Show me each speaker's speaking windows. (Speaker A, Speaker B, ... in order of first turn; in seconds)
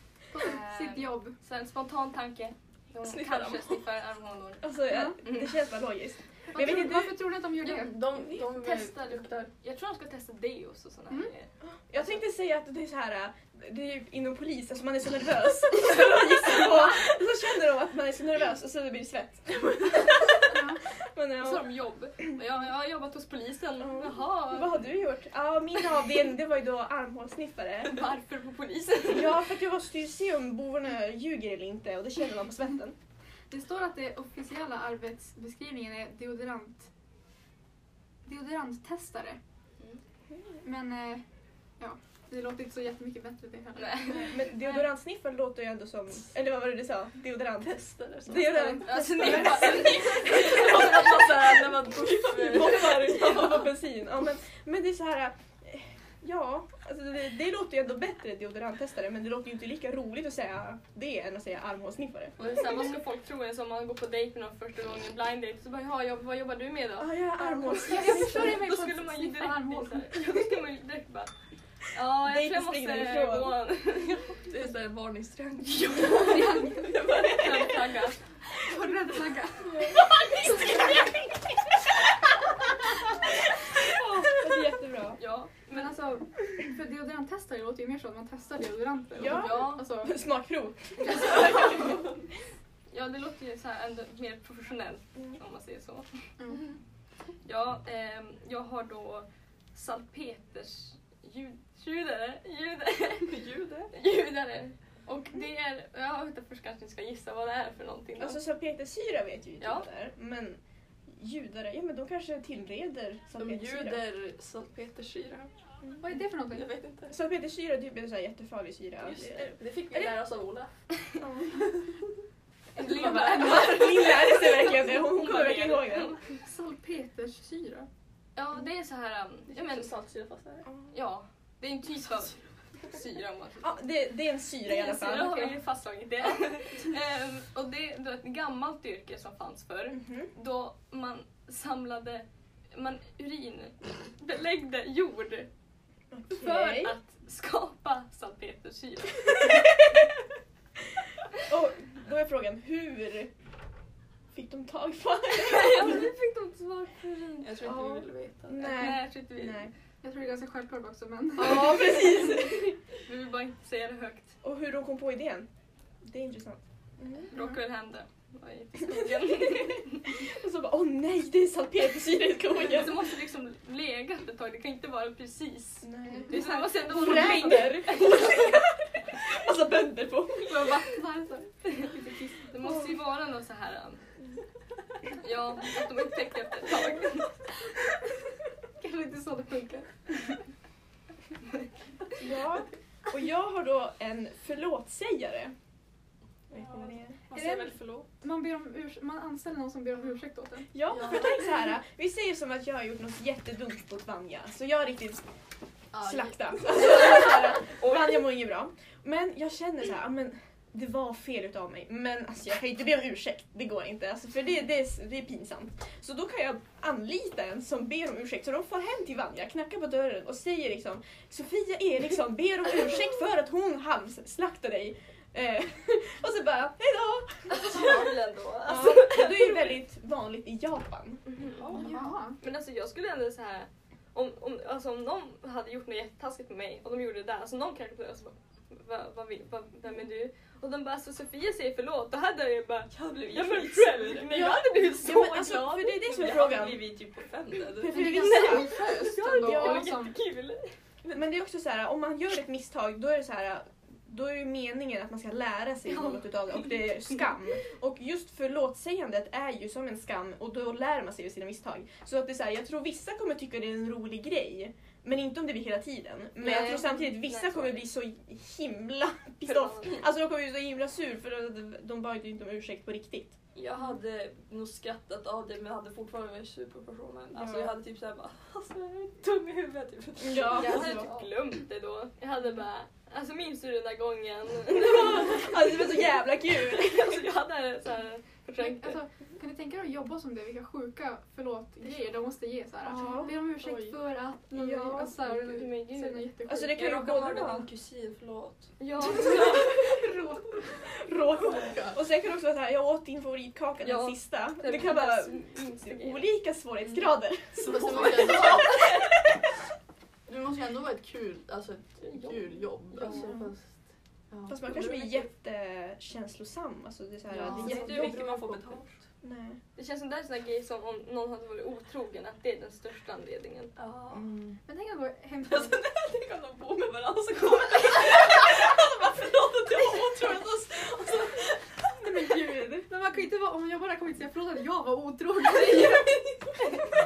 Speaker A: 0.3-1.4, 6.5-8.1, 20.5-20.8, 33.5-36.9, 38.2-39.4, 40.6-41.2, 41.8-44.3, 48.4-48.9, 67.5-70.3, 76.1-76.9, 78.6-80.0, 85.7-90.1, 96.4-96.8, 116.0-116.7, 122.8-123.9, 126.3-127.9, 160.0-161.9, 167.3-167.6, 176.3-177.3, 180.4-182.5, 188.8-190.4, 197.3-200.7, 231.7-232.4, 247.9-250.2, 280.6-281.1, 288.6-296.9, 299.1-300.8, 324.6-325.8, 332.9-336.2
Speaker B: 0.3-4.7, 8.6-12.2, 21.4-24.8, 27.8-29.4, 43.8-44.9, 48.8-51.1, 62.4-71.3, 71.9-74.2, 76.1-78.2, 85.2-86.0, 89.2-89.8, 92.9-96.1, 97.4-103.3, 103.9-108.4, 109.6-109.9, 122.8-126.2, 128.3-129.9, 130.9-133.7, 134.6-145.5, 146.3-149.5, 155.3-157.7, 158.6-159.7, 163.0-164.3, 167.3-170.1, 172.5-178.6, 181.6-184.0, 185.2-187.4, 207.8-208.1, 227.5-229.8, 231.3-246.1, 248.2-250.7, 255.8-256.7, 266.4-267.9, 269.4-270.0, 280.6-285.8, 286.7-289.0, 295.5-296.3, 298.8-299.6, 303.8-306.2, 312.0-313.3, 319.8-323.7
Speaker C: 3.0-3.8, 7.6-9.5, 49.0-53.6, 62.4-62.8, 74.3-77.8, 103.2-103.9, 113.4-115.5, 116.5-117.2, 119.0-120.7, 129.5-130.7, 157.4-158.7, 197.3-198.1, 231.6-232.1, 242.9-244.7, 246.1-248.2, 273.5-281.2, 296.8-298.7, 307.5-308.9, 317.4-319.0, 323.8-324.3, 325.4-331.9
Speaker D: 4.6-7.2, 8.2-8.5, 11.6-21.7, 23.8-28.1, 29.1-33.0, 44.1-51.0, 52.1-62.3, 67.0-68.7, 72.2-73.6, 79.6-81.7, 83.8-85.2, 89.2-92.0, 108.2-110.6, 111.1-114.0, 117.1-119.5, 121.2-121.6, 122.9-126.2, 130.7-130.9, 133.6-135.5, 139.9-140.3, 146.1-146.9, 151.4-153.3, 154.3-156.1, 157.6-159.7, 161.4-162.8, 164.4-165.5, 166.0-167.3, 168.9-173.1, 175.8-180.8, 192.2-195.5, 196.5-197.2, 200.7-205.2, 205.9-228.1, 228.6-231.2, 244.3-246.8, 247.8-248.8, 249.3-249.9, 251.1-273.4, 277.3-277.8, 280.2-281.1, 284.7-287.3, 292.9-293.4, 294.5-295.2, 296.4-297.7, 299.2-299.6, 300.9-309.3, 313.1-313.5, 314.5-318.2, 319.2-319.6, 332.0-332.9
Speaker E: 205.9-206.5, 301.4-302.0, 307.6-308.8, 310.3-313.7, 314.3-315.2, 317.3-318.8